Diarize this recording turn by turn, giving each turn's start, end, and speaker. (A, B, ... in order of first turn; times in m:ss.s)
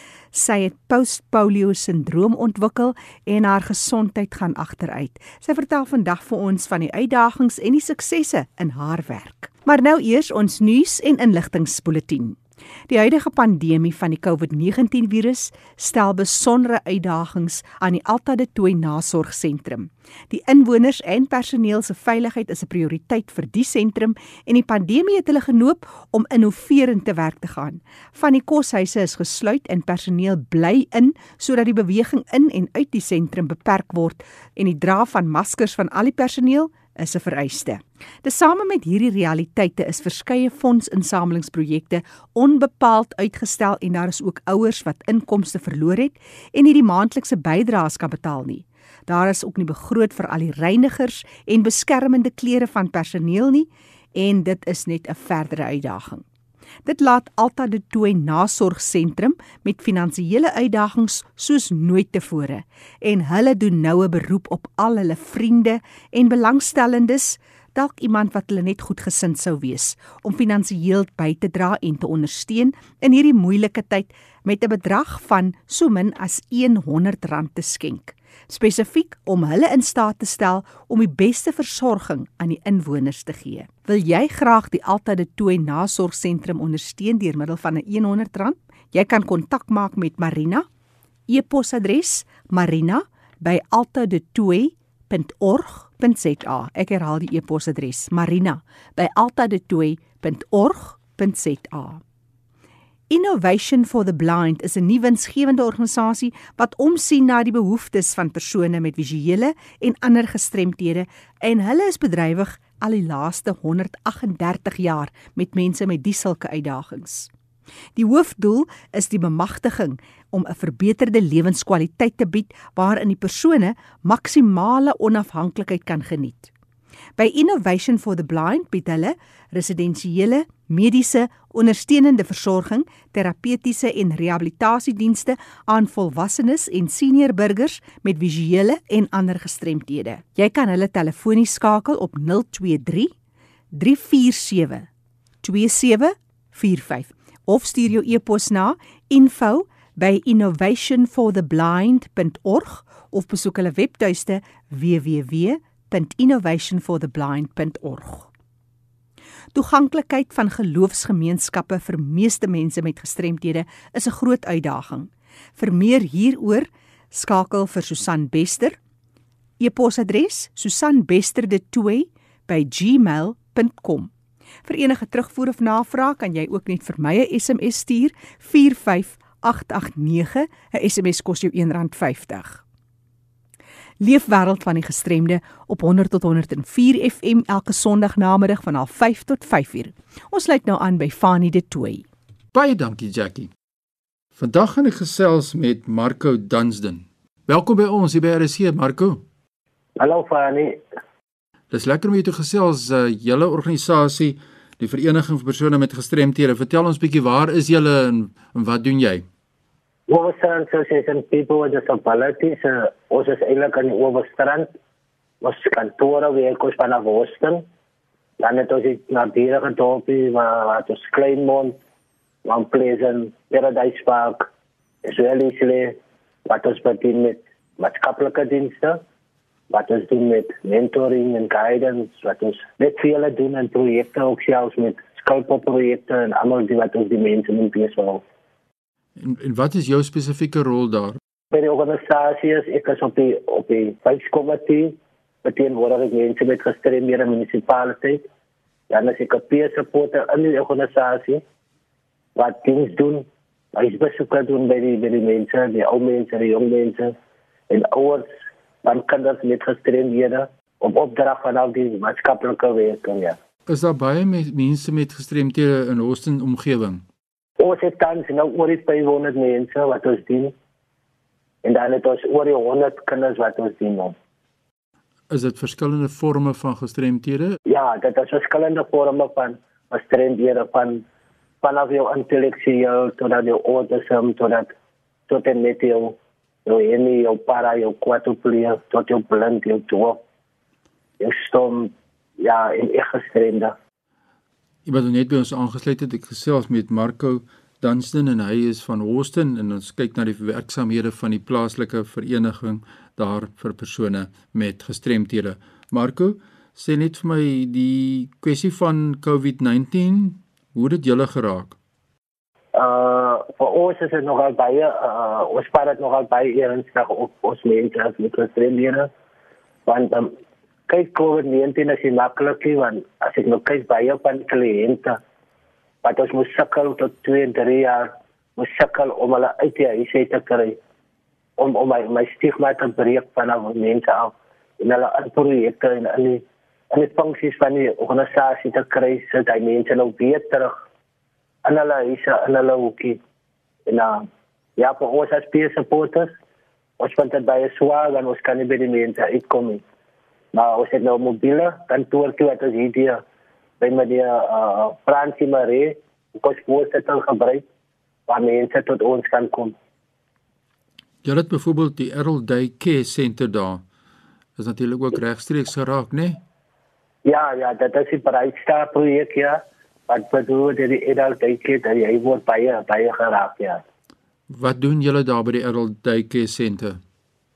0:00.3-0:12.4 A
0:12.9-0:56.2 A
0:56.8-1:30.6 A
1:31.3-1:42.0 A
1:43.1-1:57.3 A
1:58.0-2:06.5 A
2:07.2-2:23.1 A
2:23.7-2:24.9 A
2:25.4-2:38.3 A
2:39.5-2:48.8 A
2:49.6-2:54.1 A
2:54.6-3:02.6 A
3:04.0-3:12.0 A
3:12.5-3:13.5 B
3:14.4-3:19.2 B
3:20.0-3:20.8 C
3:21.7-3:29.2 B
3:30.1-3:34.7 C
3:35.4-3:37.6 C
3:38.4-3:41.8 C
3:42.4-3:44.5 C
3:45.0-3:49.0 C
3:49.7-3:58.2 C
3:59.2-4:01.2 B
4:01.5-4:08.2 C
4:08.9-4:11.4 C
4:12.4-4:17.1 C
4:17.7-4:18.3 C
4:18.8-4:23.4 C
4:23.7-4:27.0 B
4:27.6-4:30.5 C
4:31.6-4:34.2 C
4:35.3-4:37.6 B
4:37.6-4:41.0 C
4:41.6-4:44.7 C
4:45.3-4:50.2 C
4:51.2-4:53.8 C
4:54.8-5:11.8 B
5:12.7-5:19.1 C
5:19.8-5:20.3 C
5:20.9-5:25.2 C
5:26.0-5:30.8 C
5:31.6-5:40.7 C
5:41.6-5:43.2 C
5:43.9-5:46.4 C
5:47.0-5:49.8 C
5:50.5-5:53.2 C
5:53.8-5:57.6 C
5:58.3-5:59.7 C
6:01.2-6:03.8 B
6:04.6-6:06.4 B
6:07.2-6:13.8 C
6:14.5-6:17.0 B